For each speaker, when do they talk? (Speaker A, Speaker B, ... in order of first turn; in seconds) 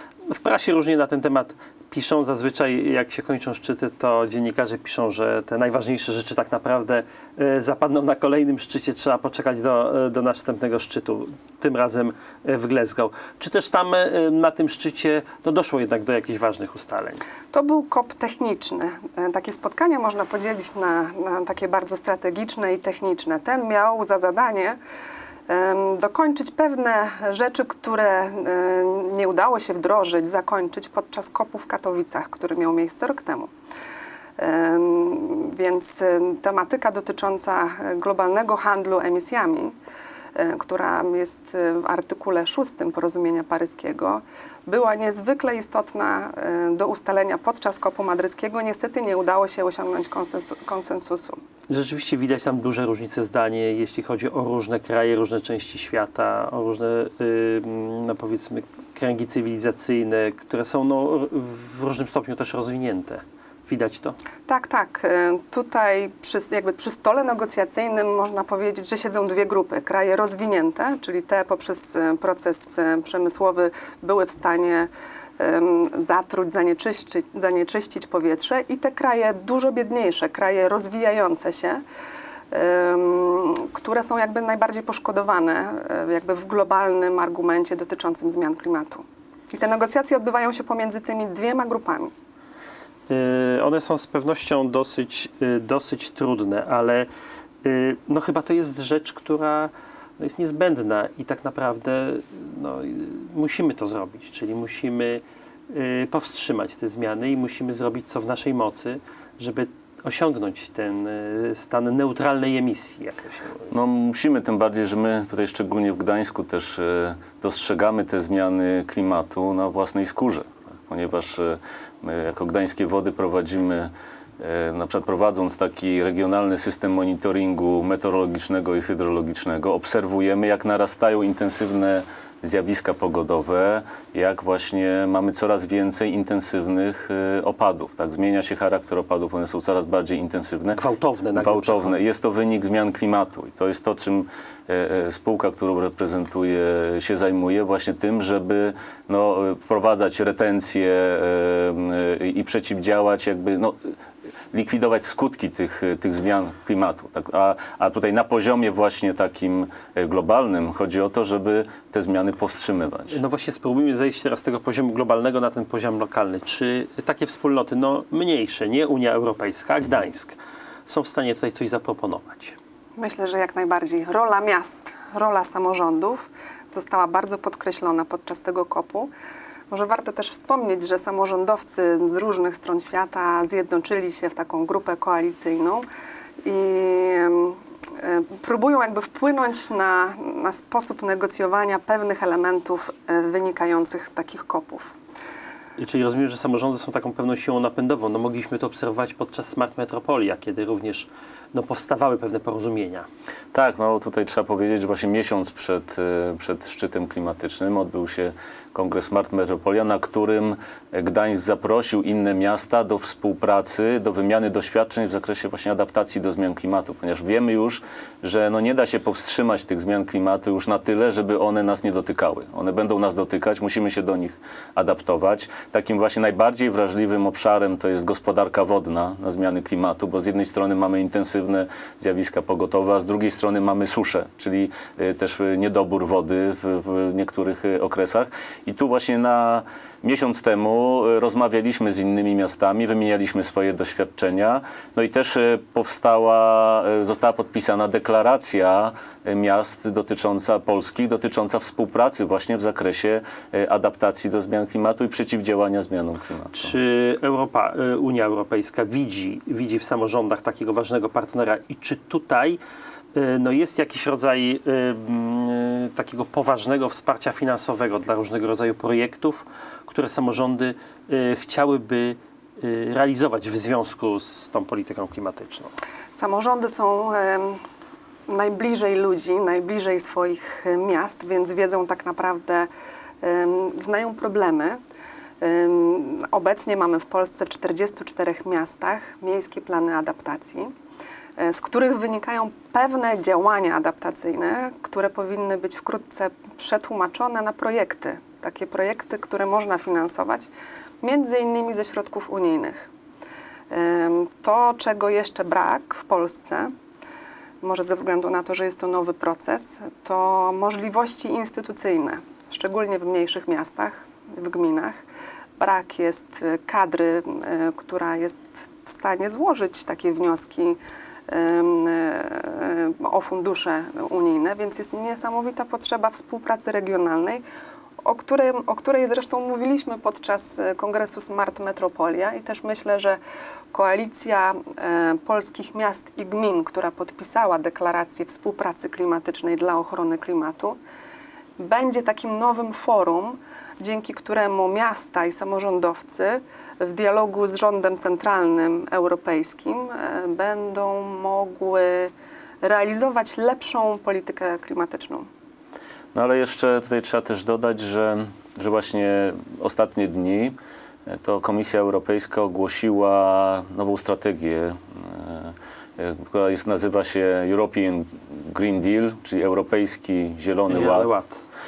Speaker A: 0.3-17.2, 51.7-64.2, 93.1-97.1, 97.6-113.7, 140.8-142.0, 163.1-172.6, 195.8-203.1, 256.5-262.6, 263.1-275.7, 370.7-371.4
Speaker B: 17.5-24.8, 25.5-33.5, 34.4-39.7, 40.3-51.4, 64.5-81.8, 82.5-92.1, 173.0-179.1, 179.7-185.8, 186.4-194.9, 276.2-277.6, 278.3-282.7, 283.2-284.8, 285.4-290.7, 291.4-300.5, 301.0-302.9, 303.7-306.7, 307.6-315.0, 315.6-327.4, 328.0-333.2, 333.7-340.8, 341.6-352.1, 352.6-355.3
Speaker C: 113.7-140.8, 141.3-153.9, 154.5-163.2, 203.5-256.7, 356.1-360.5, 361.1-371.1